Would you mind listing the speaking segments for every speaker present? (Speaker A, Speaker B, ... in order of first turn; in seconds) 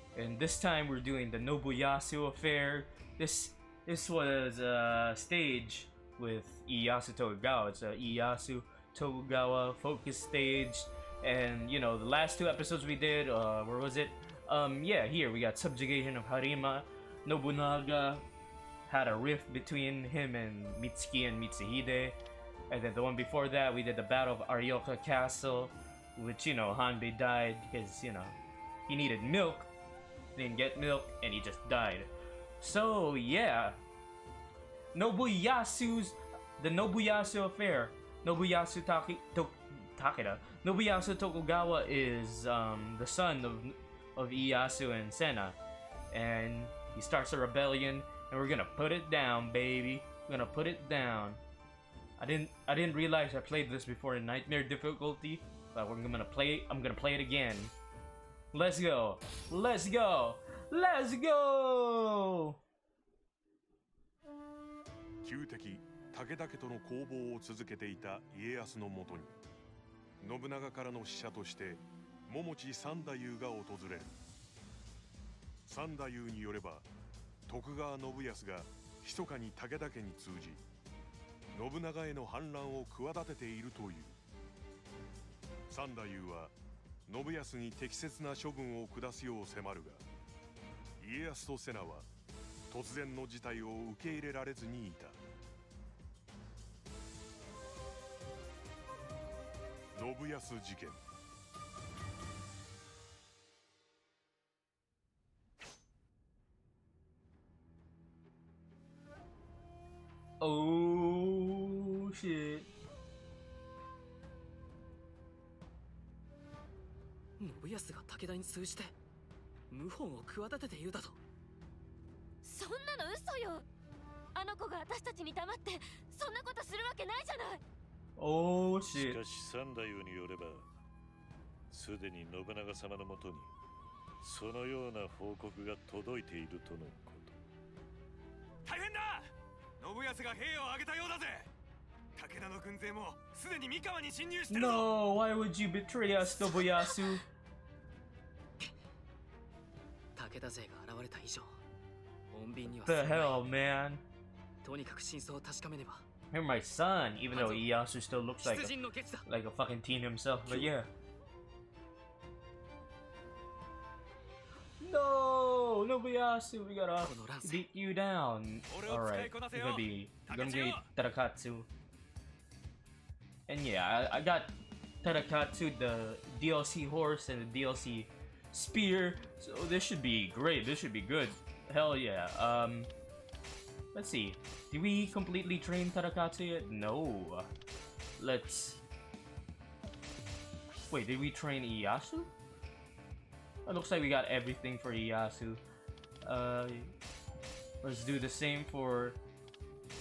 Speaker A: 0.1-18.2, 18.9-22.1, 22.7-28.3, 28.9-29.7, 30.3-33.8, 34.9-45.6, 46.1-51.4, 52.2-57.7, 58.5-62.6, 110.4-112.7, 128.2-129.2, 144.5-147.2, 152.8-154.0, 156.3-158.7, 159.2-160.9, 164.8-171.7, 173.5-174.5, 175.0-182.9, 183.9-187.5, 188.2-188.8, 190.9-192.3, 193.7-195.6, 196.2-196.9, 197.8-199.2
Speaker B: 65.2-69.3, 70.2-74.1, 75.7-76.9, 77.5-80.6, 81.5-84.2, 85.7-86.5, 87.1-90.0, 91.0-92.1, 92.7-95.2, 99.9-101.0
Speaker C: 117.4-118.9, 119.7-121.2, 150.2-151.6, 152.3-153.4, 154.6-156.1, 157.3-157.7, 158.4-159.2, 167.0-167.7
Speaker D: 122.4-123.6, 124.3-127.6
Speaker E: 128.9-130.7, 131.7-133.5, 134.2-137.4
Speaker F: 138.6-141.5, 142.1-144.9, 168.7-170.9